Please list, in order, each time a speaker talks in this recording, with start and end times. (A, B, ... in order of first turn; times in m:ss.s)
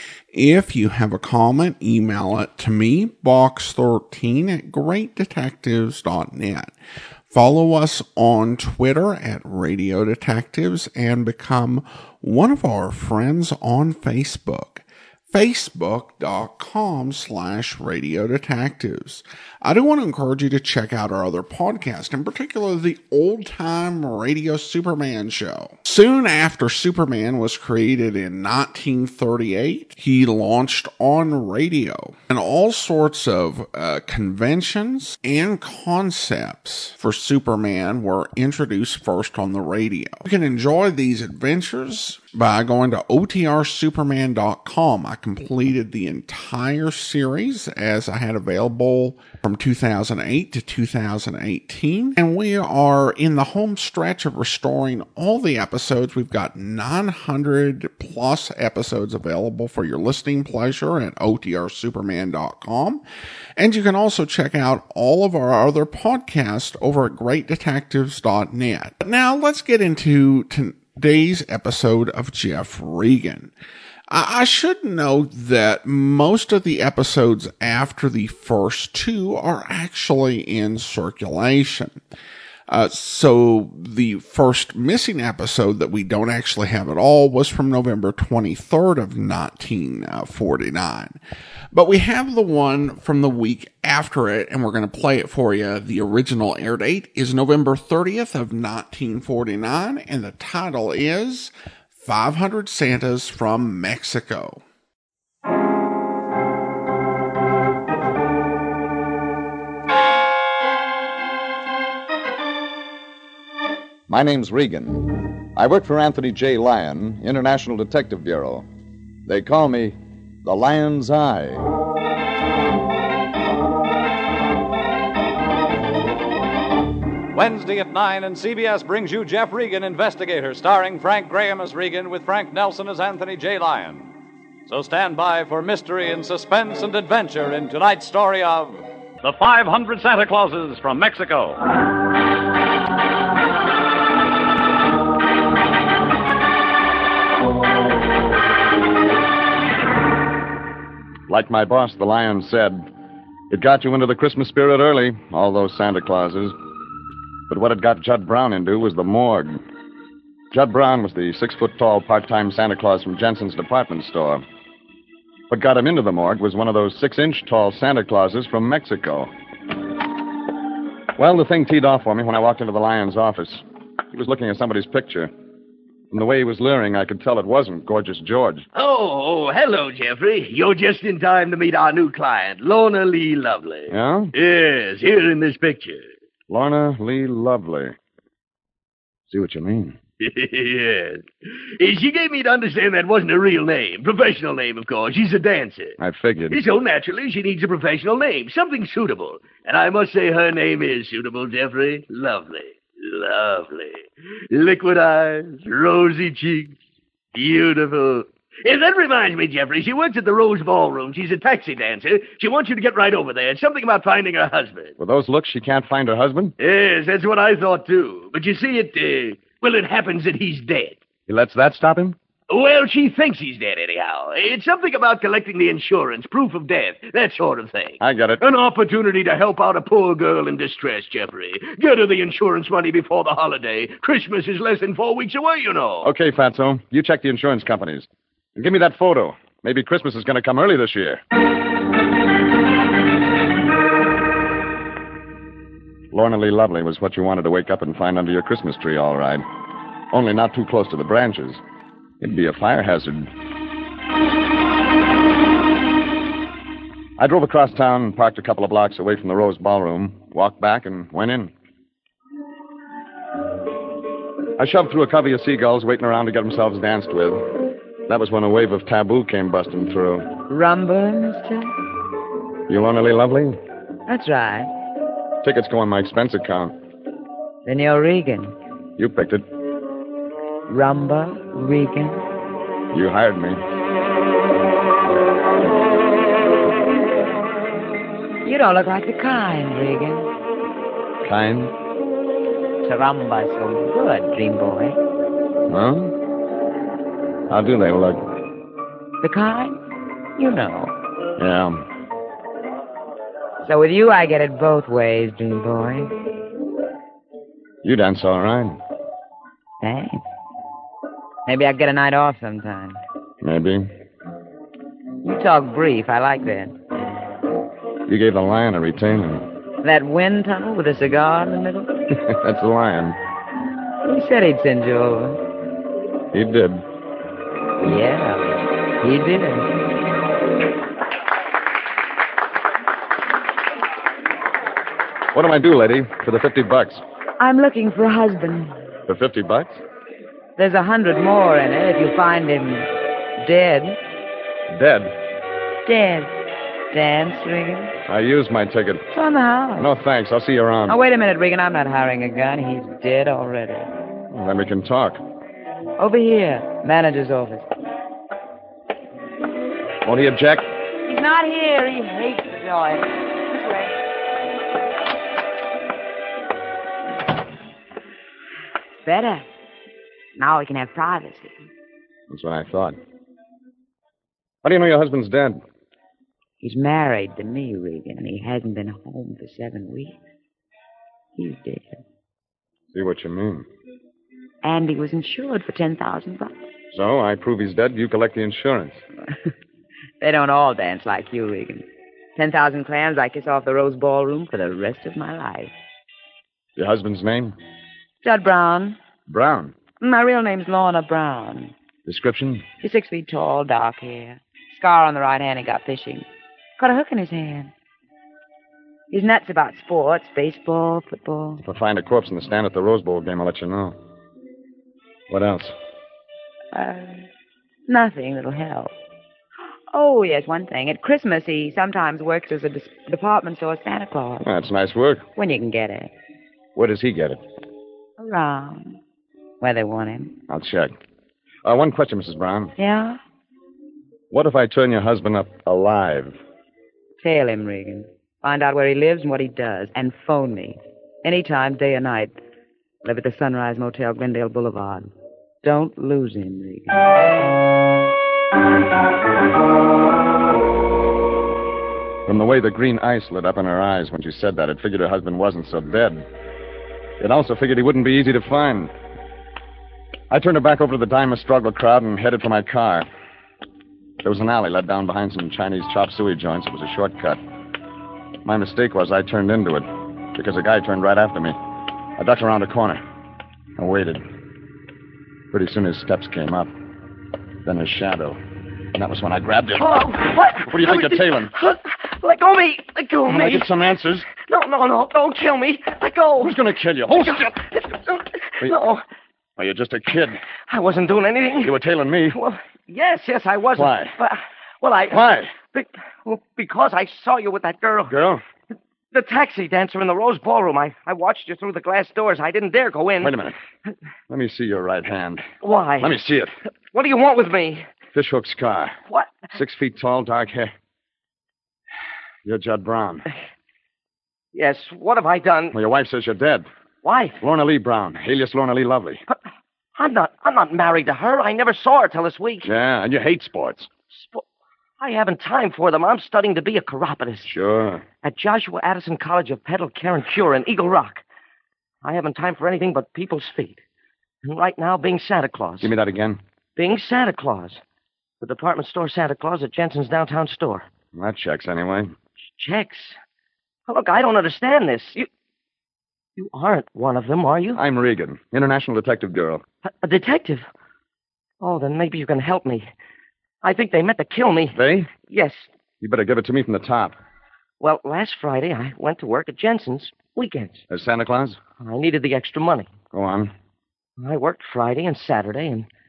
0:00.3-0:06.7 A
0:07.3-1:03.0 A
1:03.6-1:13.5 A
1:14.1-1:22.0 A
1:22.7-1:31.2 A
1:31.7-1:44.6 A
1:54.1-1:58.6 B
1:59.2-2:01.6 B
2:07.3-2:14.1 C
2:14.7-2:21.6 C
2:31.3-2:32.8 B
2:33.5-2:36.5 B
2:37.5-2:39.6 B
2:40.5-2:44.4 B
2:45.5-2:49.3 B
2:51.2-2:55.3 B
2:56.1-2:58.7 B
2:58.7-3:06.1 D
3:03.9-3:04.3 B
3:06.5-3:08.0 B
3:09.3-3:10.0 B
3:10.2-3:16.0 D
3:16.0-3:16.6 B
3:16.5-3:26.8 D
3:27.3-3:34.9 D
3:35.0-3:36.5 B
3:36.6-3:41.0 D
3:41.3-3:42.2 B
3:42.5-3:56.1 D
3:48.0-3:48.4 B
3:56.0-4:01.2 B
4:06.1-4:09.4 B
4:10.1-4:11.6 B
4:12.2-4:13.3 B
4:17.2-4:21.5 B
4:24.6-4:30.3 B
4:30.5-4:31.7 E
4:32.7-4:33.6 B
4:34.1-4:34.7 E
4:35.4-4:36.7 B
4:37.6-4:38.5 E
4:39.0-4:39.4 B
4:40.7-4:42.2 E
4:42.9-4:43.6 B
4:48.4-4:50.3 E
4:51.2-4:51.7 B
4:52.8-4:55.0 E
4:55.7-4:56.1 B
4:57.5-4:58.2 B
4:59.2-4:59.8 E
5:00.4-5:00.9 E
5:01.4-5:01.8 B
5:03.6-5:06.1 E
5:07.8-5:08.8 B
5:09.8-5:10.2 E
5:11.4-5:13.0 E
5:13.4-5:13.9 B
5:15.2-5:16.7 E
5:18.1-5:19.4 B
5:19.8-5:22.0 E
5:22.1-5:23.2 B
5:24.0-5:25.4 E
5:26.3-5:26.8 B
5:27.8-5:28.4 E
5:29.0-5:29.7 E
5:35.3-5:37.0 B
5:37.4-5:38.8 E
5:39.1-5:39.8 B
5:40.6-5:44.0 E
5:44.7-5:45.1 B
5:45.8-5:46.3 E
5:46.9-5:47.9 E
5:48.1-5:49.0 B
5:49.1-5:49.9 E
5:49.8-5:51.0 B
5:50.9-5:53.9 E
5:54.3-5:55.2 B
5:56.0-5:57.7 E
6:00.0-6:00.6 B
6:01.0-6:03.9 E
6:09.0-6:09.4 E
6:10.4-6:11.6 E
6:12.3-6:13.0 B
6:14.6-6:15.6 B
6:16.6-6:20.2 E
6:21.4-6:22.0 E
6:22.9-6:23.6 B
6:24.6-6:26.6 E
6:26.9-6:29.0 B
6:30.2-6:31.8 E
6:32.4-6:35.7 E
6:36.8-6:37.5 B
6:38.2-6:39.0 E
6:39.3-6:39.7 B
6:40.0-6:41.7 E
6:42.0-6:42.6 B
6:42.8-6:46.2 E
6:46.8-6:47.7 E
6:49.1-6:51.6 E
6:51.6-6:54.0 B
6:55.3-6:55.7 B
6:56.7-6:57.3 E
6:57.9-6:58.9 E
6:59.9-7:04.4 E
7:04.4-7:05.2 B
7:05.4-7:06.1 E
7:06.7-7:07.4 B
7:08.2-7:09.0 E
7:09.6-7:10.4 E
7:10.5-7:10.9 B
7:11.6-7:12.7 B
7:12.8-7:13.2 E
7:14.3-7:16.4 B
7:17.2-7:22.4 E
7:23.0-7:25.1 E
7:25.6-7:27.0 E
7:32.2-7:36.2 B
7:37.2-7:38.9 B
7:40.3-7:43.1 B
7:44.2-7:47.4 B
7:48.4-7:51.6 B
7:52.2-7:53.0 B
7:53.8-7:54.2 B
7:55.5-7:56.7 B
7:57.6-7:58.4 B
7:58.9-8:00.0 B
7:59.8-8:03.7 F
8:00.7-8:01.5 B
8:03.3-8:04.3 B
8:04.3-8:06.6 F
8:06.4-8:07.6 B
8:07.1-8:09.0 F
8:09.6-8:10.4 B
8:10.7-8:11.8 F
8:11.6-8:12.4 B
8:12.3-8:18.1 F
8:13.7-8:14.1 B
8:15.1-8:15.5 B
8:18.1-8:18.4 B
8:19.1-8:23.4 F
8:23.2-8:23.6 B
8:24.3-8:25.5 B
8:25.6-8:26.1 F
8:26.0-8:26.5 B
8:26.9-8:27.8 F
8:28.1-8:29.0 B
8:29.1-8:29.5 F
8:29.5-8:30.7 B
8:32.4-8:33.2 B
8:34.5-8:35.7 F
8:35.7-8:36.7 B
8:37.0-8:37.4 F
8:37.4-8:39.2 B
8:39.9-8:42.7 F
8:42.6-8:43.9 B
8:44.1-8:44.4 F
8:45.0-8:47.5 F
8:47.4-8:48.0 B
8:48.2-8:51.2 F
8:52.0-8:53.8 F
8:54.4-8:55.9 F
8:55.8-8:56.4 B
8:56.8-8:57.8 F
8:58.4-9:00.9 F
9:01.1-9:02.1 B
9:02.5-9:03.2 F
9:03.9-9:05.3 F
9:06.4-9:07.8 F
9:07.8-9:09.6 B
9:09.8-9:10.7 F
9:11.6-9:12.9 F
9:13.6-9:15.7 F
9:14.7-9:15.1 B
9:16.0-9:17.1 B
9:17.8-9:20.8 F
9:20.9-9:21.6 B
9:21.8-9:22.9 F
9:23.1-9:23.5 B
9:24.2-9:25.9 F